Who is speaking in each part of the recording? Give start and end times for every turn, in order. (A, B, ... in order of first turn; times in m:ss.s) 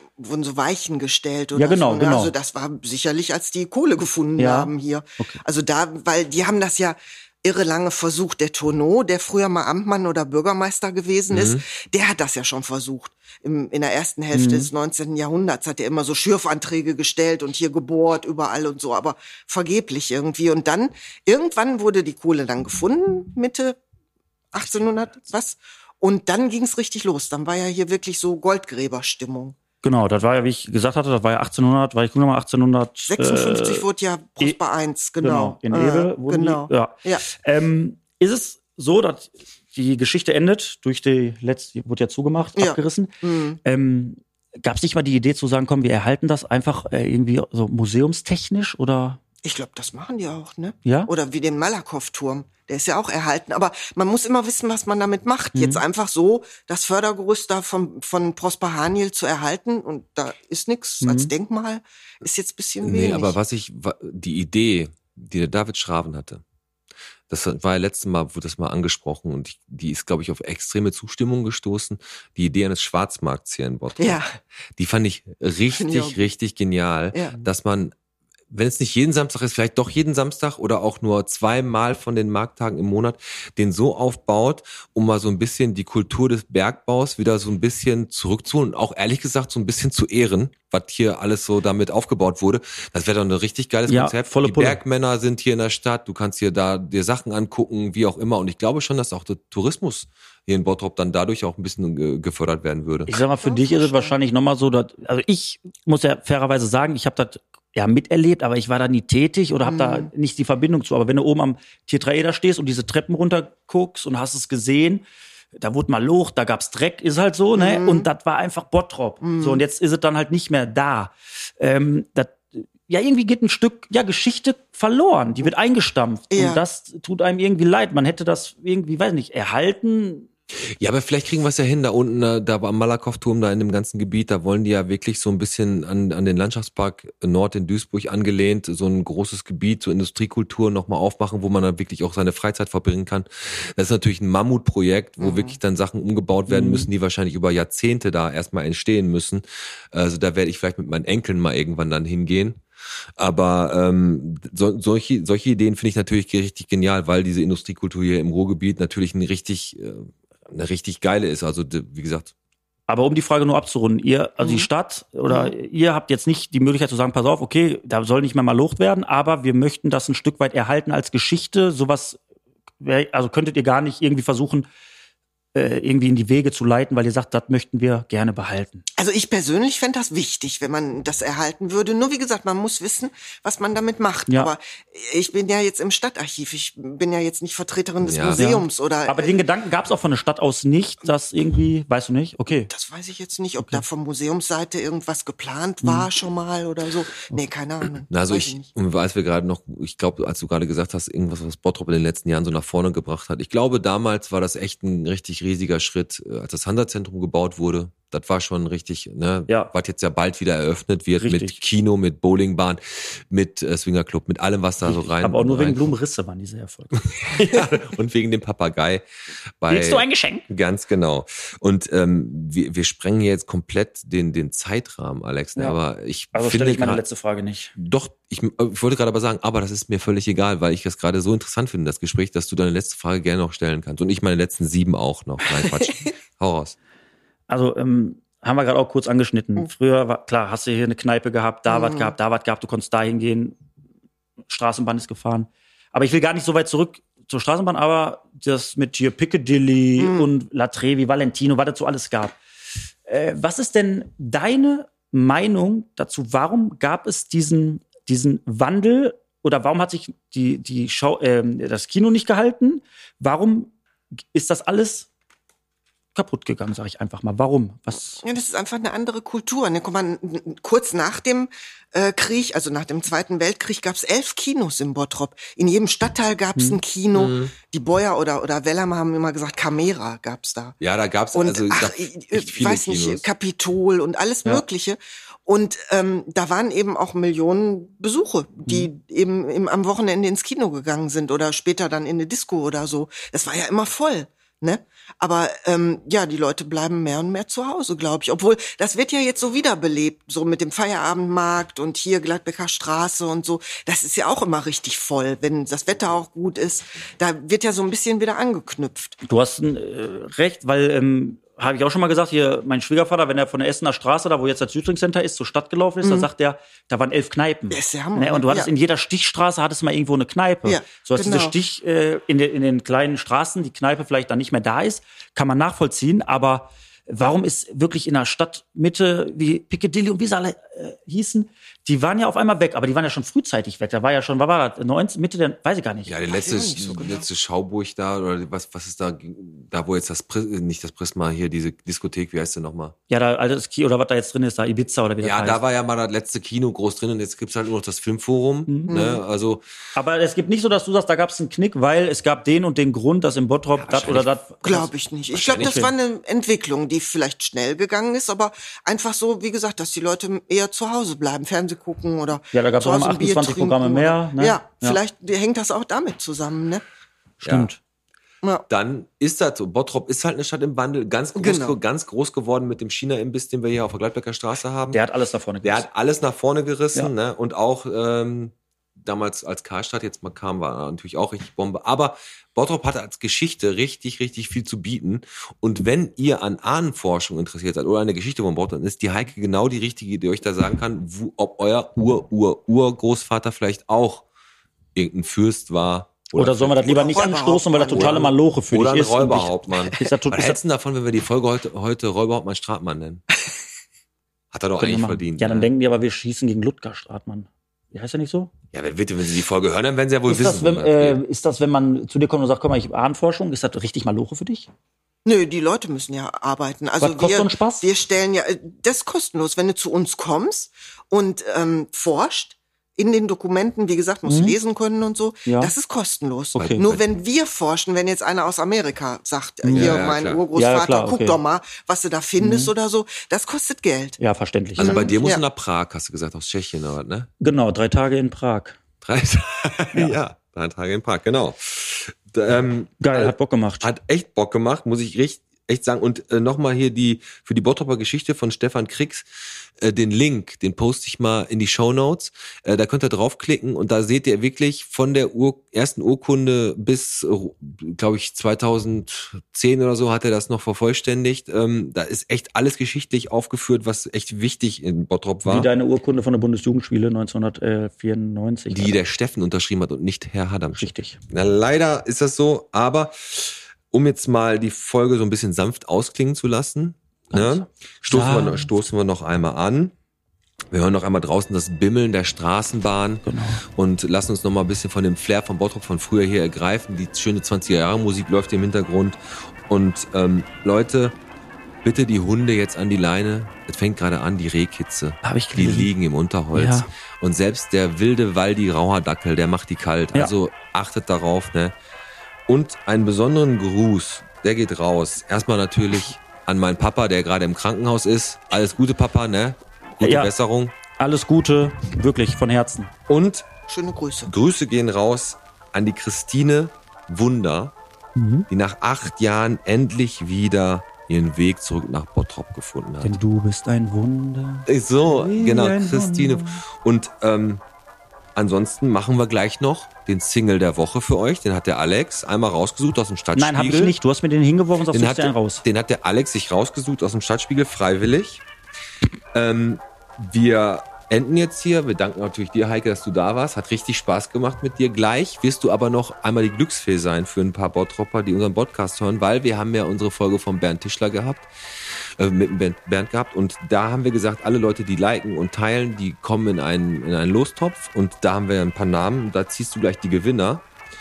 0:00.2-0:23.8 A
0:01.6-0:02.3 B
0:04.4-0:05.4 B
0:11.3-0:11.6 C
0:14.3-0:14.7 B
0:24.5-0:29.6 A
0:29.8-0:33.9 B
0:33.1-0:37.2 A
0:35.2-0:49.2 B
0:42.6-0:43.6 A
0:49.4-1:03.4 A
0:50.8-0:51.1 B
0:55.5-0:55.8 B
1:01.0-1:01.3 B
1:02.8-1:06.4 C
1:07.3-1:14.2 C
1:14.0-1:14.3 A
1:14.8-1:17.9 C
1:15.7-1:16.3 A
1:18.5-1:43.2 C
1:33.9-1:34.8 B
1:43.1-1:55.0 B
1:43.4-1:44.2 A
1:49.6-1:50.1 A
1:55.6-2:10.3 B
1:57.6-1:58.1 A
1:59.2-1:59.6 A
2:06.3-2:06.6 A
2:10.8-2:32.6 C
2:25.2-2:25.6 A
2:26.5-2:26.9 B
2:33.2-2:42.3 C
2:42.9-2:52.2 B
2:44.4-2:44.7 A
2:45.3-2:45.5 A
2:52.8-2:54.7 B
2:55.5-2:58.8 B
2:59.0-3:09.4 A
3:08.0-3:08.4 C
3:08.4-3:12.7 B
3:12.7-3:18.7 A
3:15.8-3:16.1 B
3:18.1-3:35.9 C
3:31.2-3:31.6 B
3:34.8-3:37.7 B
3:37.2-3:39.0 C
3:39.6-3:47.0 C
3:39.7-3:40.5 B
3:46.3-3:47.7 B
3:47.8-3:56.8 C
3:55.6-3:56.0 A
3:57.5-4:03.6 B
4:01.7-4:02.2 A
4:04.5-4:12.4 B
4:10.0-4:10.3 A
4:13.1-4:23.7 B
4:24.3-4:25.1 B
4:26.2-4:28.2 B
4:28.2-4:40.8 A
4:37.1-4:37.5 C
4:40.8-4:43.3 C
4:41.3-5:09.2 A
5:09.2-5:36.2 B
5:16.0-5:16.3 A
5:17.7-5:18.7 A
5:20.6-5:21.6 A
5:36.1-5:43.0 C
5:36.3-5:37.3 A
5:43.1-5:45.6 B
5:45.2-5:49.6 C
5:48.7-5:48.9 B
5:48.9-5:49.2 A
5:50.0-5:54.9 B
5:53.8-5:54.3 C
5:54.6-6:06.8 A
5:55.3-5:55.9 C
5:55.6-5:55.9 B
6:02.5-6:05.0 B
6:07.4-6:07.8 B
6:07.4-6:07.7 C
6:08.7-6:15.0 C
6:11.4-6:11.8 A
6:14.9-6:15.9 B
6:15.6-6:34.2 C
6:35.0-6:36.9 C
6:36.3-6:40.6 B
6:36.8-6:38.3 A
6:37.9-6:43.2 C
6:44.5-6:45.7 C
6:44.8-6:48.5 B
6:48.7-6:51.2 C
6:50.3-6:54.7 B
6:55.2-7:14.2 A
6:57.0-6:57.8 B
7:04.3-7:04.6 B
7:05.4-7:05.7 B
7:06.6-7:07.0 B
7:06.6-7:07.0 C
7:09.6-7:11.4 B
7:09.7-7:10.5 C
7:12.4-7:12.7 B
7:14.2-7:15.2 B
7:14.8-7:15.4 A
7:14.8-7:17.3 C
7:17.4-7:18.8 B
7:19.0-7:45.7 C
7:23.0-7:23.9 B
7:45.4-7:49.0 B
7:48.7-7:59.9 C
7:50.8-7:51.2 B
7:57.3-7:58.7 B
8:00.7-8:11.2 C
8:03.2-8:03.6 B
8:11.8-8:21.8 C
8:15.2-8:15.9 B
8:16.5-8:16.9 B
8:22.5-8:30.7 C
8:30.0-8:30.3 B
8:31.0-8:32.9 B
8:33.1-8:33.5 C
8:33.7-8:34.3 A
8:34.2-8:37.7 C
8:38.2-8:38.5 B
8:38.5-8:43.2 C
8:43.0-8:46.6 B
8:44.7-8:47.6 C
8:48.4-8:54.0 C
8:53.4-8:55.6 B
8:54.9-8:58.4 C
8:59.3-9:20.6 C